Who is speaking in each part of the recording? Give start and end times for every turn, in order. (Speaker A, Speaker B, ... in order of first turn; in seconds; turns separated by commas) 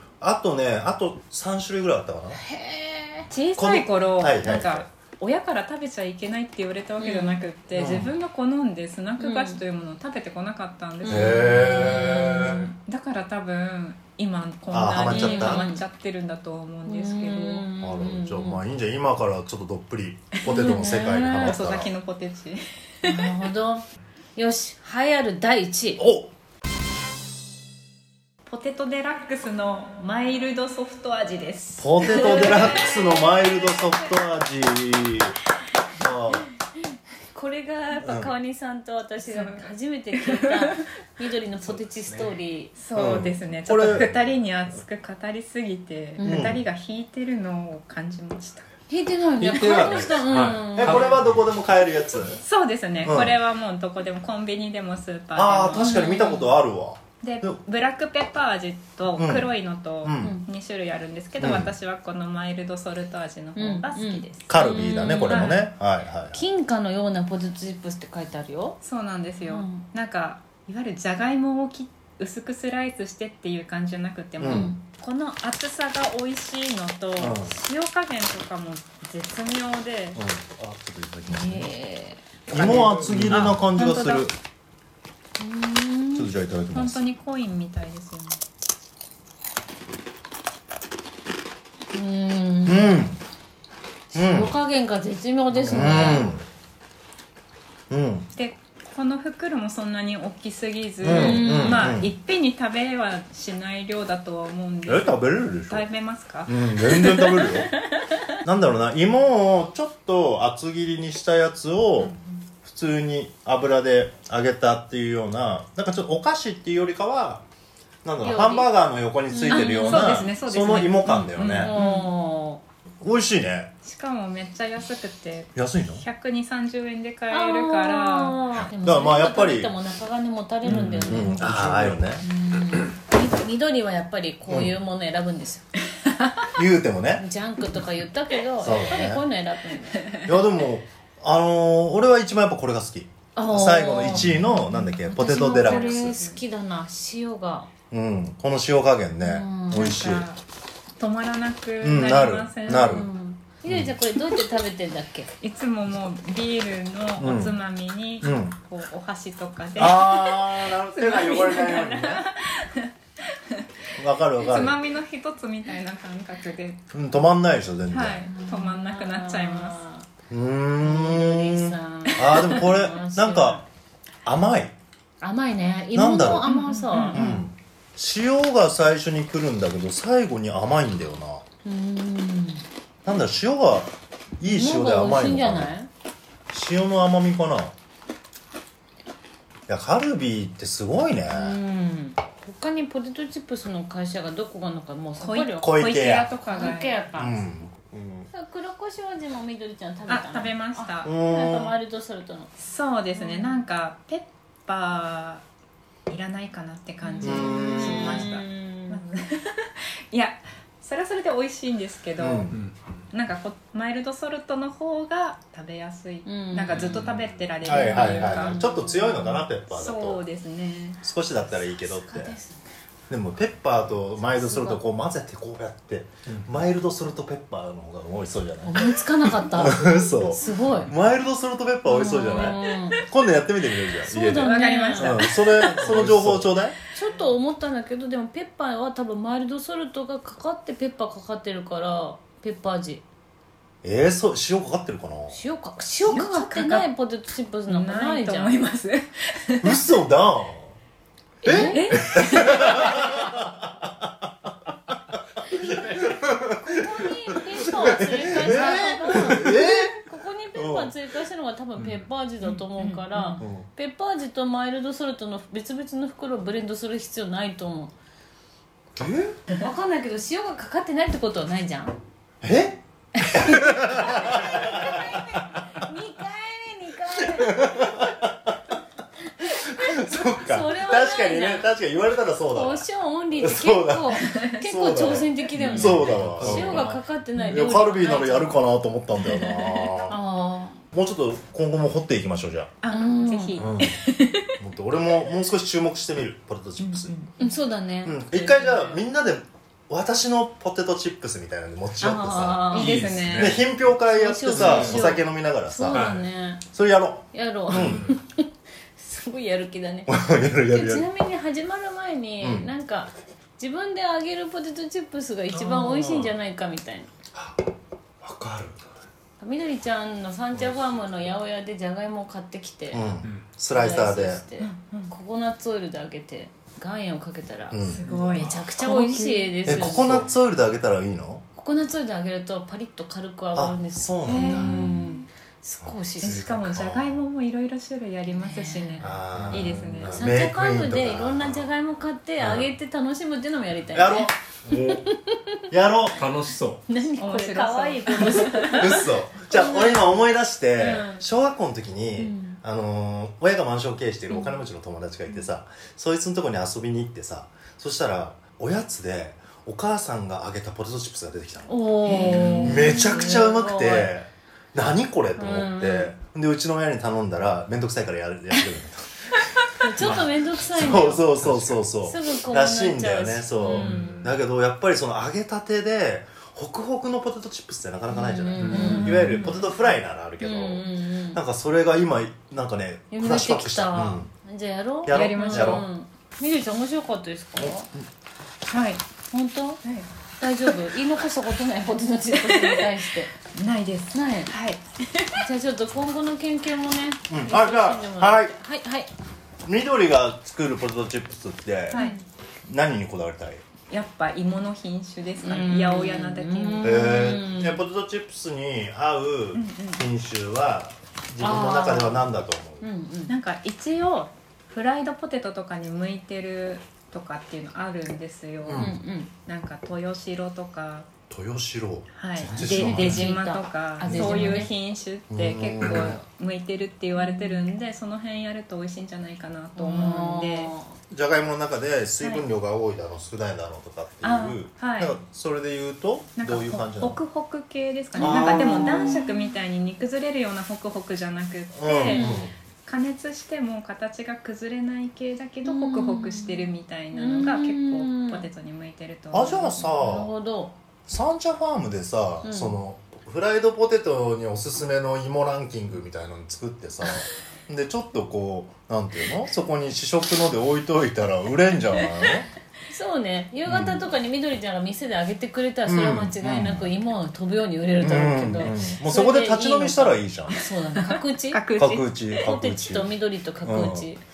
Speaker A: 0.2-2.4, Speaker B: 2.4-3.3, Speaker C: 3.3-17.7, Speaker A: 3.6-4.9, Speaker B: 7.0-7.4, Speaker A: 7.7-8.1, Speaker B: 9.2-9.6, Speaker B: 11.0-12.7, Speaker A: 11.1-12.7, Speaker A: 14.7-15.7, Speaker B: 15.1-15.8, Speaker B: 16.9-18.6, Speaker A: 17.8-21.9, Speaker B: 20.4-21.6, Speaker C: 20.5-23.4, Speaker B: 23.0-23.9, Speaker B: 24.4-26.0, Speaker A: 26.0-26.3, Speaker C: 28.5-34.1, Speaker A: 31.8-35.4, Speaker B: 32.0-32.9, Speaker A: 36.0-36.5, Speaker B: 37.3-42.7, Speaker A: 38.0-38.3, Speaker C: 39.2-40.8, Speaker C: 42.8-48.7, Speaker A: 43.0-44.1, Speaker B: 46.2-46.5, Speaker A: 46.2-46.6, Speaker B: 48.9-51.2, Speaker A: 49.4-52.4, Speaker D: 50.2-51.0, Speaker C: 52.4-56.1, Speaker A: 53.0-53.4, Speaker A: 55.4-57.6, Speaker B: 55.8-56.5, Speaker C: 57.2-64.5, Speaker A: 59.2-59.5, Speaker A: 60.0-60.4, Speaker B: 60.2-60.5, Speaker A: 61.4-61.7, Speaker B: 63.6-65.6, Speaker A: 64.5-66.4, Speaker C: 65.3-65.7, Speaker B: 66.3-68.8, Speaker C: 68.8-80.2, Speaker B: 69.5-69.8, Speaker A: 74.4-74.7, Speaker B: 74.5-74.8, Speaker A: 77.2-77.6, Speaker A: 80.2-81.7, Speaker B: 81.3-83.5, Speaker A: 82.5-84.3, Speaker C: 82.6-84.3, Speaker D: 83.1-83.4, Speaker B: 85.4-86.3, Speaker A: 86.2-87.0, Speaker C: 86.7-88.4, Speaker B: 91.9-93.1, Speaker A: 92.7-93.2, Speaker B: 94.1-96.3, Speaker A: 94.1-94.5, Speaker A: 95.5-96.4, Speaker A: 97.9-98.3, Speaker C: 98.4-107.5, Speaker A: 101.0-102.1, Speaker B: 101.1-102.0, Speaker A: 104.9-105.9, Speaker A: 106.5-107.7, Speaker B: 107.9-108.3, Speaker A: 108.4-117.5, Speaker A: 118.0-121.8, Speaker B: 118.2-118.7, Speaker B: 119.3-120.3, Speaker C: 119.5-122.1, Speaker B: 121.1-122.6, Speaker A: 123.0-123.7, Speaker C: 123.8-128.4, Speaker A: 125.6-126.0, Speaker B: 127.3-135.7, Speaker A: 128.6-129.7, Speaker A: 130.7-132.2, Speaker A: 134.5-134.8, Speaker A: 136.6-137.3, Speaker B: 137.2-140.2, Speaker A: 138.6-139.2, Speaker A: 140.2-146.2, Speaker B: 143.4-147.7, Speaker C: 145.3-146.4, Speaker A: 147.9-150.3, Speaker B: 149.2-150.0, Speaker C: 149.7-150.4, Speaker C: 151.0-153.1, Speaker A: 151.8-153.1, Speaker B: 152.7-155.3, Speaker A: 153.7-153.9, Speaker C: 155.4-163.7, Speaker A: 157.2-157.6, Speaker A: 158.2-158.6, Speaker A: 159.8-162.3, Speaker A: 164.0-164.8, Speaker C: 164.4-166.9, Speaker A: 166.9-168.3, Speaker C: 167.9-169.8, Speaker B: 168.3-170.1, Speaker A: 170.3-173.6, Speaker B: 170.8-173.6, Speaker A: 174.2-174.8, Speaker B: 175.2-177.4, Speaker A: 175.9-176.5, Speaker C: 176.4-177.3, Speaker A: 177.1-181.4, Speaker B: 181.7-182.7, Speaker A: 183.1-185.7, Speaker B: 184.4-185.9, Speaker A: 186.5-187.7, Speaker A: 189.7-191.6, Speaker B: 191.3-195.8, Speaker C: 195.2-197.0, Speaker A: 195.6-196.3, Speaker B: 196.5-197.4, Speaker A: 197.2-198.3, Speaker B: 198.3-202.5, Speaker C: 200.1-201.1, Speaker A: 201.0-201.8, Speaker C: 202.6-205.4, Speaker B: 203.2-203.6, Speaker C: 206.1-212.5, Speaker B: 207.0-209.0, Speaker A: 207.2-208.3, Speaker A: 212.2-212.6, Speaker C: 213.1-218.6, Speaker B: 216.2-219.4, Speaker A: 217.6-220.2, Speaker C: 219.7-221.0, Speaker A: 221.0-222.4, Speaker B: 221.8-222.7, Speaker A: 223.1-236.8, Speaker B: 224.2-224.8, Speaker B: 228.7-230.9, Speaker B: 231.9-233.0, Speaker B: 234.0-236.1, Speaker C: 234.4-235.9, Speaker D: 236.0-236.4, Speaker B: 236.9-243.1, Speaker A: 243.8-245.4, Speaker B: 245.3-248.6, Speaker C: 246.1-246.9, Speaker C: 247.7-249.8, Speaker A: 249.6-250.7, Speaker B: 251.4-253.1, Speaker A: 251.4-260.0, Speaker C: 251.5-252.9, Speaker B: 255.5-267.9, Speaker A: 260.6-260.9, Speaker C: 262.8-263.4, Speaker A: 263.4-263.7, Speaker A: 269.0-269.4, Speaker B: 269.5-271.9, Speaker A: 272.4-275.4, Speaker B: 273.1-278.1, Speaker A: 277.2-278.7, Speaker B: 279.4-281.7, Speaker A: 279.4-290.2, Speaker B: 282.4-288.6, Speaker C: 284.2-284.5, Speaker D: 285.6-286.9, Speaker B: 289.3-290.8, Speaker A: 290.9-292.7, Speaker C: 292.8-293.9, Speaker B: 292.9-294.5, Speaker A: 293.6-294.0, Speaker A: 294.6-297.1, Speaker C: 296.8-297.4, Speaker B: 297.4-299.0, Speaker A: 298.0-306.2, Speaker B: 302.0-303.1, Speaker C: 302.7-303.6, Speaker D: 302.9-303.5, Speaker B: 304.0-306.6, Speaker D: 304.6-305.0, Speaker D: 305.9-306.2, Speaker A: 306.7-308.1, Speaker B: 307.3-317.1, Speaker A: 310.1-311.1, Speaker A: 312.4-312.7, Speaker A: 315.5-316.3, Speaker A: 317.3-317.7, Speaker A: 318.2-318.9, Speaker B: 319.4-323.1, Speaker A: 322.9-324.4, Speaker B: 323.7-330.3, Speaker C: 324.6-325.1, Speaker A: 327.7-328.6, Speaker C: 327.9-329.6, Speaker A: 329.6-331.4, Speaker B: 331.6-336.5, Speaker A: 333.6-334.9, Speaker C: 334.3-335.2, Speaker A: 335.8-337.2, Speaker C: 336.2-340.2, Speaker B: 338.3-339.1, Speaker A: 339.0-341.7, Speaker B: 340.1-345.6, Speaker A: 342.4-342.7, Speaker A: 343.9-345.1, Speaker A: 345.7-346.5, Speaker D: 346.2-346.8, Speaker B: 346.9-350.1, Speaker C: 347.2-349.0, Speaker A: 348.7-384.3, Speaker B: 350.8-351.2, Speaker B: 352.2-352.6, Speaker B: 361.7-364.1, Speaker C: 362.1-362.9, Speaker B: 365.4-366.1, Speaker B: 369.8-371.4, Speaker D: 371.4-371.8, Speaker B: 372.0-374.2, Speaker D: 373.9-374.2, Speaker B: 378.1-379.7, Speaker D: 378.6-378.9, Speaker C: 378.7-379.6, Speaker B: 380.4-381.4, Speaker B: 383.1-387.9, Speaker A: 385.0-385.9, Speaker C: 385.1-385.9, Speaker A: 387.6-388.1, Speaker C: 388.7-389.0, Speaker B: 389.3-389.8, Speaker C: 389.8-390.1, Speaker B: 390.4-393.3, Speaker C: 392.3-395.4, Speaker B: 394.1-394.5, Speaker B: 395.3-399.1, Speaker A: 397.3-398.6, Speaker A: 399.6-402.0, Speaker C: 401.9-402.2, Speaker B: 401.9-402.2, Speaker A: 402.7-403.6, Speaker C: 403.9-407.1, Speaker B: 405.4-407.8, Speaker A: 406.8-412.9, Speaker C: 409.6-410.0, Speaker B: 411.4-412.2, Speaker B: 412.8-413.3, Speaker C: 413.3-418.9, Speaker A: 418.6-419.0, Speaker B: 418.7-419.3, Speaker C: 419.5-421.1, Speaker A: 421.3-423.3, Speaker C: 422.2-430.7, Speaker B: 422.5-424.7, Speaker A: 424.1-424.7, Speaker A: 425.3-426.2, Speaker B: 427.2-427.6, Speaker B: 429.8-430.9, Speaker A: 431.1-437.2, Speaker C: 432.2-432.4, Speaker C: 434.2-435.1, Speaker C: 436.4-449.9, Speaker A: 438.2-439.2, Speaker B: 438.2-439.4, Speaker A: 441.7-442.5, Speaker B: 441.9-442.5, Speaker B: 445.7-448.5, Speaker A: 449.3-450.3, Speaker B: 450.0-450.8, Speaker A: 451.1-462.5, Speaker B: 452.4-452.8, Speaker B: 462.9-471.8, Speaker A: 463.7-464.0, Speaker A: 465.9-466.9, Speaker A: 468.0-470.7, Speaker C: 471.0-472.2, Speaker A: 471.8-474.1, Speaker B: 472.3-474.2